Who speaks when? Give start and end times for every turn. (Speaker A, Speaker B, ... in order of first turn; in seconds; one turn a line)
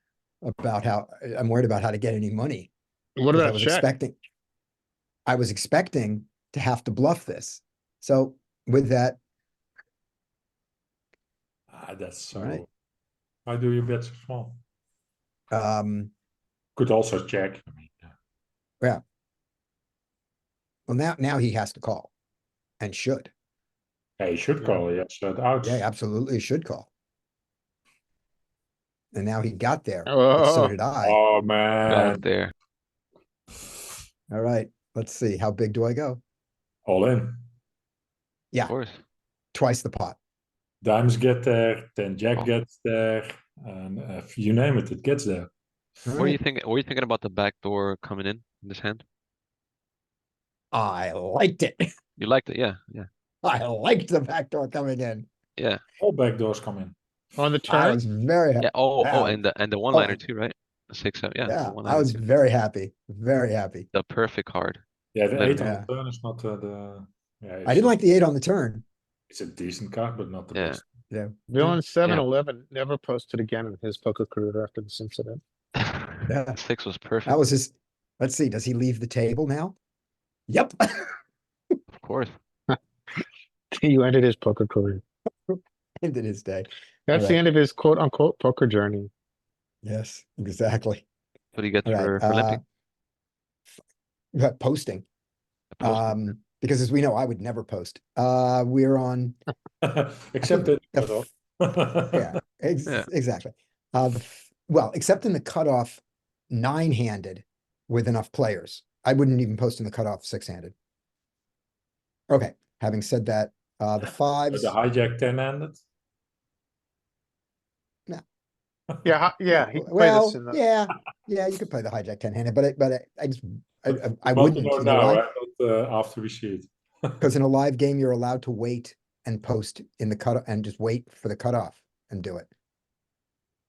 Speaker A: 0.4-2.7
Speaker B: 3.2-3.9
Speaker A: 3.3-4.2
Speaker A: 5.2-9.2
Speaker C: 11.7-12.7
Speaker A: 12.3-12.6
Speaker C: 13.4-14.6
Speaker A: 15.5-16.1
Speaker C: 16.8-18.1
Speaker A: 20.9-22.1
Speaker A: 22.8-23.3
Speaker C: 24.2-25.8
Speaker A: 25.6-26.9
Speaker A: 29.1-31.2
Speaker B: 30.1-30.7
Speaker C: 31.0-32.2
Speaker D: 31.9-32.5
Speaker A: 34.3-36.2
Speaker C: 36.9-37.4
Speaker D: 38.6-39.0
Speaker A: 39.5-40.2
Speaker C: 40.8-45.5
Speaker A: 46.0-46.4
Speaker D: 46.2-49.0
Speaker A: 50.7-51.9
Speaker D: 52.2-53.1
Speaker A: 53.4-55.3
Speaker D: 55.6-55.8
Speaker C: 56.0-56.9
Speaker B: 57.4-58.0
Speaker A: 57.7-60.2
Speaker D: 58.6-62.2
Speaker A: 61.5-63.9
Speaker D: 63.9-64.8
Speaker C: 65.1-67.9
Speaker D: 65.3-65.7
Speaker A: 65.6-65.9
Speaker A: 67.7-68.8
Speaker C: 69.3-70.9
Speaker D: 70.5-70.8
Speaker B: 71.5-75.4
Speaker D: 75.8-77.4
Speaker A: 76.3-76.6
Speaker A: 77.2-79.8
Speaker A: 80.5-81.1
Speaker D: 81.9-82.3
Speaker B: 82.7-85.0
Speaker A: 85.5-87.4
Speaker B: 87.1-89.1
Speaker A: 89.8-91.0
Speaker D: 91.5-92.6
Speaker A: 91.8-92.6
Speaker A: 94.3-95.0
Speaker D: 95.8-96.2
Speaker A: 95.8-99.4
Speaker C: 99.8-102.3
Speaker A: 100.4-101.2
Speaker A: 102.1-110.7
Speaker A: 112.3-114.7
Speaker C: 114.5-115.8
Speaker B: 119.0-120.6
Speaker A: 119.5-125.2
Speaker C: 123.9-127.2
Speaker A: 127.2-132.5